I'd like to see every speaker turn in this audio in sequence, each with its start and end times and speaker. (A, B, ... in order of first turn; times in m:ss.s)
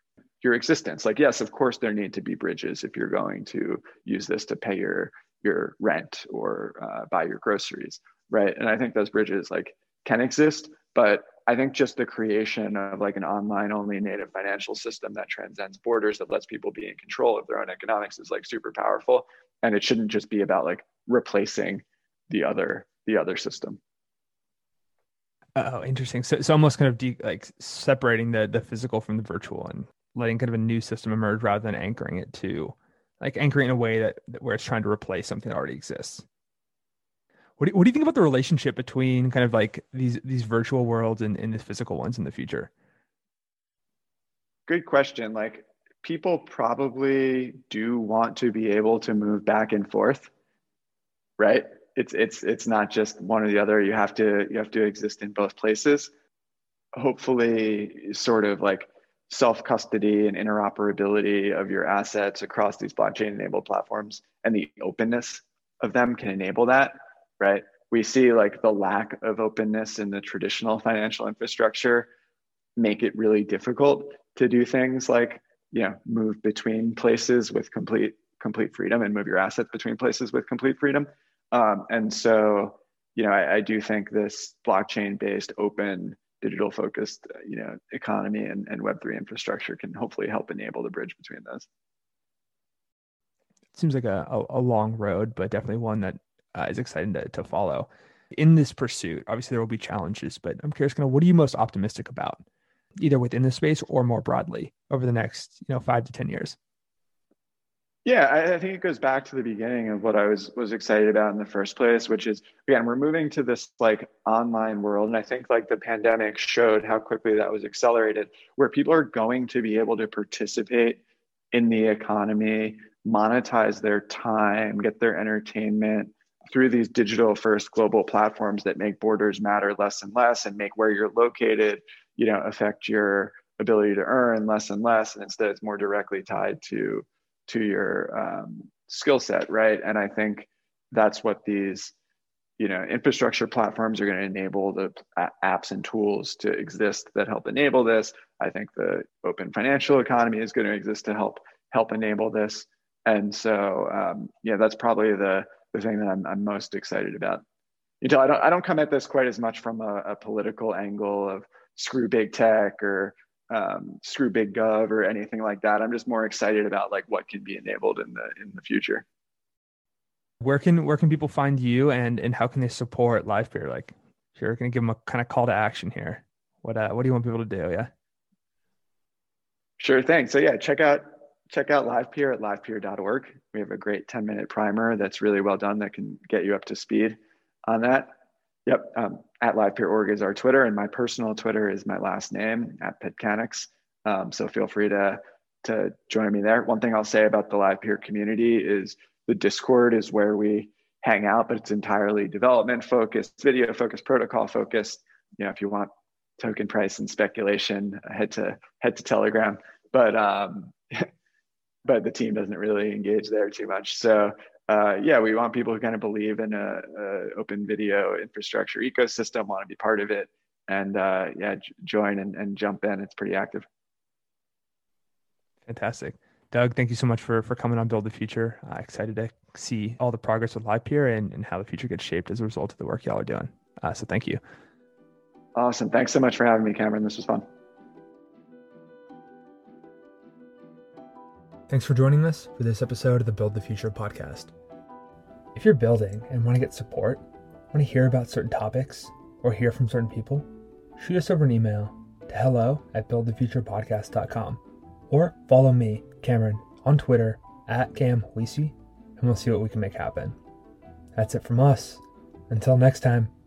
0:00.4-0:23.8 A
0:25.6-0:36.2 B
0:37.6-0:42.7 B
0:44.7-0:50.3 A
0:51.4-0:56.1 A
0:57.0-1:12.1 A
1:12.8-1:31.7 A
1:33.7-1:42.4 B
1:43.0-1:46.6 B
1:48.0-2:01.0 A
2:01.5-2:21.9 A
2:22.6-2:37.4 A
2:38.0-2:49.0 A
2:50.4-2:57.9 B
2:59.8-3:08.1 A
3:08.7-3:31.1 A
3:31.8-3:43.7 A
3:45.7-3:54.4 B
3:55.6-3:57.4 A
4:01.7-4:04.5 B
4:05.6-4:20.4 B
4:21.2-4:23.3 B